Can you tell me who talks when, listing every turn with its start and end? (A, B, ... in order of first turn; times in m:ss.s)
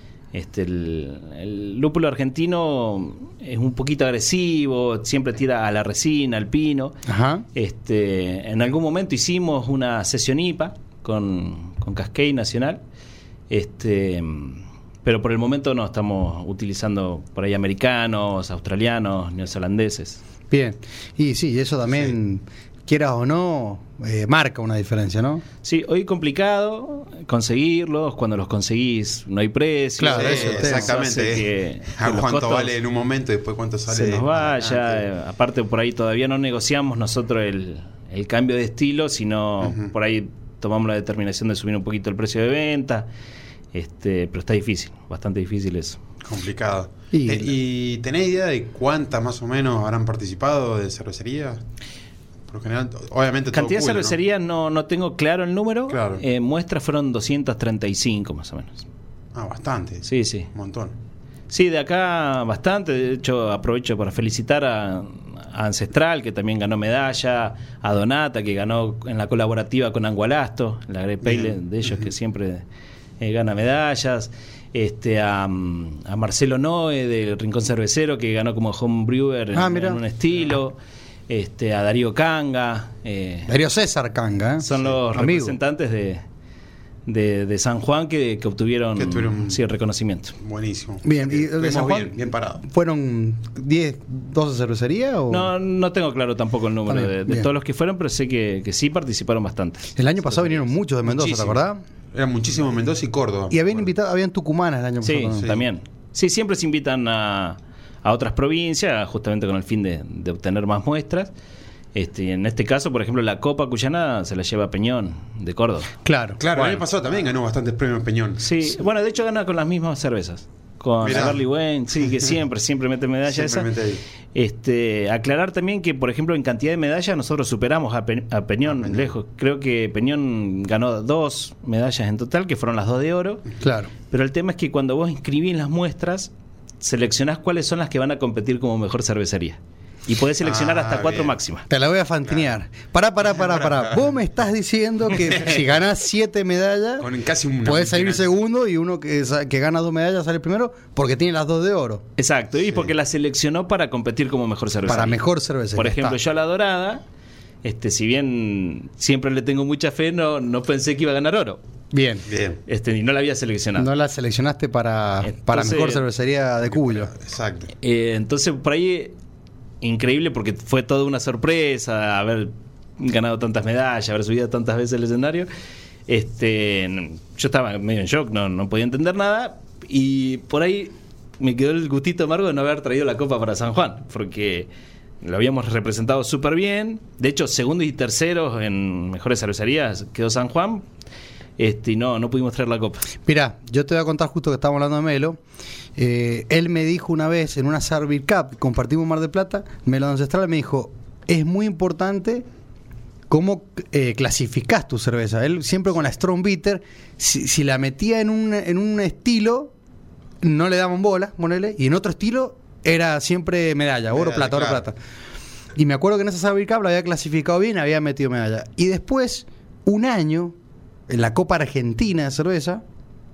0:00.3-0:07.0 A
0:07.0-0:07.4 B
0:07.5-0:12.8 A
0:13.5-0:20.2 A
0:20.5-0:25.4 B
0:25.6-0:32.7 A
0:30.0-0:30.9 B
0:30.1-0:35.0 C
0:33.9-0:43.1 A
0:39.6-0:39.9 C
0:43.7-0:46.0 A
0:46.2-0:51.6 C
0:47.1-0:47.5 B
0:52.5-0:54.2 C
0:53.5-0:58.8 A
0:55.9-0:56.2 C
0:59.3-1:00.9 C
1:00.0-1:00.5 A
1:01.5-1:12.6 A
1:11.2-1:12.0 C
1:13.2-1:20.8 A
1:19.5-1:20.0 B
1:21.3-1:23.5 A
1:23.5-1:25.6 B
1:24.6-1:26.2 A
1:27.0-1:30.3 A
1:29.0-1:29.6 C
1:30.4-1:32.6 C
1:31.0-1:35.5 B
1:35.3-1:40.7 A
1:36.9-1:37.5 B
1:40.0-1:41.8 B
1:41.1-1:41.6 C
1:42.1-1:43.9 C
1:43.5-1:45.5 B
1:45.0-1:51.3 A
1:45.4-1:45.6 C
1:51.9-1:55.9 A
1:56.0-1:56.7 B
1:56.4-1:58.5 C
1:58.4-2:03.7 A
2:01.0-2:01.4 C
2:03.3-2:04.0 C
2:04.3-2:13.4 A
2:08.7-2:09.0 C
2:13.6-2:13.9 B
2:14.1-2:21.7 A
2:20.4-2:21.3 C
2:21.7-2:27.1 B
2:23.4-2:24.0 C
2:25.2-2:25.6 C
2:27.0-2:28.3 C
2:27.6-2:32.0 B
2:32.2-2:37.0 A
2:34.8-2:36.2 B
2:37.6-2:41.6 A
2:41.9-2:42.2 B
2:42.3-2:42.6 C
2:42.7-2:43.9 A
2:43.8-2:47.1 B
2:45.2-2:46.0 A
2:46.8-2:47.7 C
2:47.8-2:49.1 A
2:49.8-2:55.5 A
2:56.1-3:04.7 A
3:05.2-3:10.8 A
3:11.6-3:13.1 A
3:13.2-3:15.4 B
3:16.0-3:22.4 B
3:23.3-3:29.7 B
3:30.4-3:35.0 B
3:34.1-3:34.8 C
3:35.8-3:40.5 B
3:41.1-3:42.8 B